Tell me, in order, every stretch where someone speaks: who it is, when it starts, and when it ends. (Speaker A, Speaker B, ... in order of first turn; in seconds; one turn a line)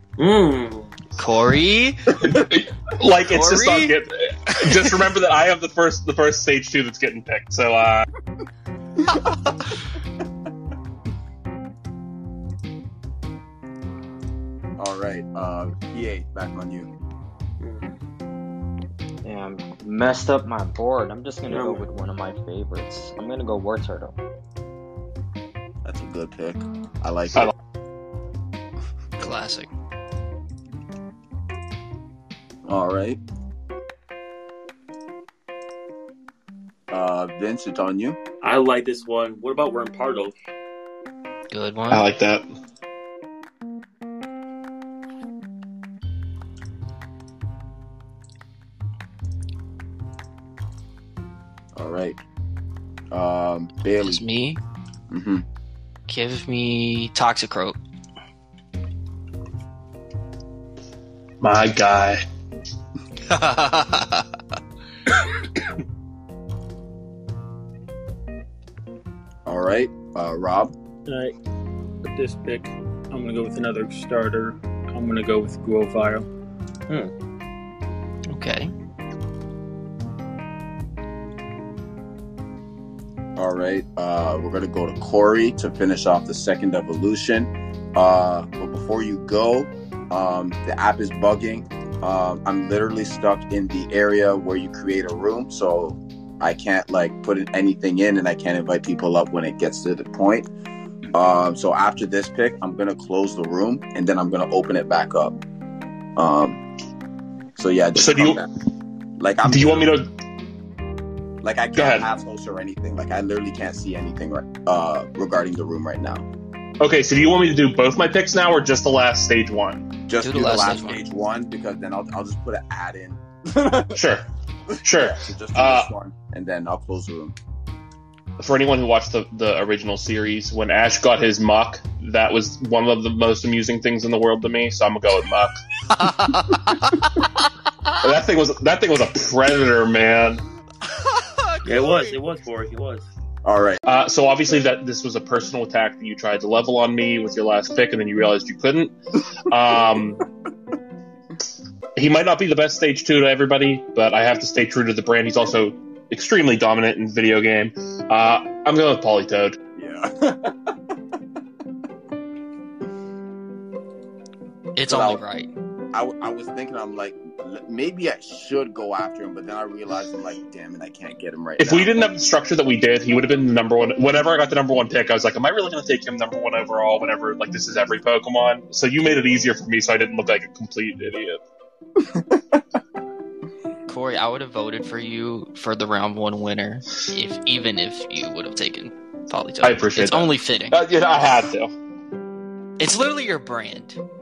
Speaker A: 0.2-0.9
Speaker B: 1.1-2.1
Speaker C: 2.2-8.0
Speaker B: 3.3-3.9
Speaker D: 14.8-16.9
Speaker A: 17.6-18.0
Speaker E: 19.2-24.1
Speaker A: 21.5-21.8
Speaker D: 25.8-27.5
Speaker B: 29.2-29.7
Speaker D: 32.6-33.2
Speaker D: 36.9-38.2
Speaker A: 38.4-40.3
Speaker B: 41.5-42.0
Speaker C: 41.9-42.5
Speaker D: 51.7-52.2
Speaker D: 53.1-54.2
Speaker B: 54.0-54.6
Speaker D: 55.1-55.4
Speaker B: 56.1-57.8
Speaker C: 61.4-62.2
Speaker B: 63.3-64.3
Speaker D: 69.5-70.7
Speaker F: 71.0-71.3
Speaker F: 72.0-76.3
Speaker B: 78.3-78.7
Speaker D: 83.3-100.5
Speaker D: 101.1-105.4
Speaker D: 106.2-106.6
Speaker D: 107.5-108.5
Speaker C: 108.0-108.4
Speaker D: 109.2-109.9
Speaker C: 109.4-110.1
Speaker D: 111.4-116.2
Speaker C: 111.8-112.0
Speaker C: 116.8-119.9
Speaker D: 120.1-124.0
Speaker B: 120.2-121.0
Speaker C: 123.9-124.2
Speaker D: 124.7-127.3
Speaker C: 124.8-125.9
Speaker C: 128.4-135.5
Speaker B: 135.9-137.4
Speaker C: 138.0-140.4
Speaker B: 140.8-142.2
Speaker A: 141.6-143.1
Speaker D: 143.4-143.8
Speaker C: 143.9-148.9
Speaker C: 149.5-150.2
Speaker C: 151.9-159.6
Speaker D: 159.7-160.7
Speaker B: 164.7-165.5
Speaker D: 164.9-165.2
Speaker D: 165.9-171.9
Speaker C: 171.6-181.4
Speaker B: 183.9-190.8
Speaker C: 189.6-191.7
Speaker B: 192.8-194.0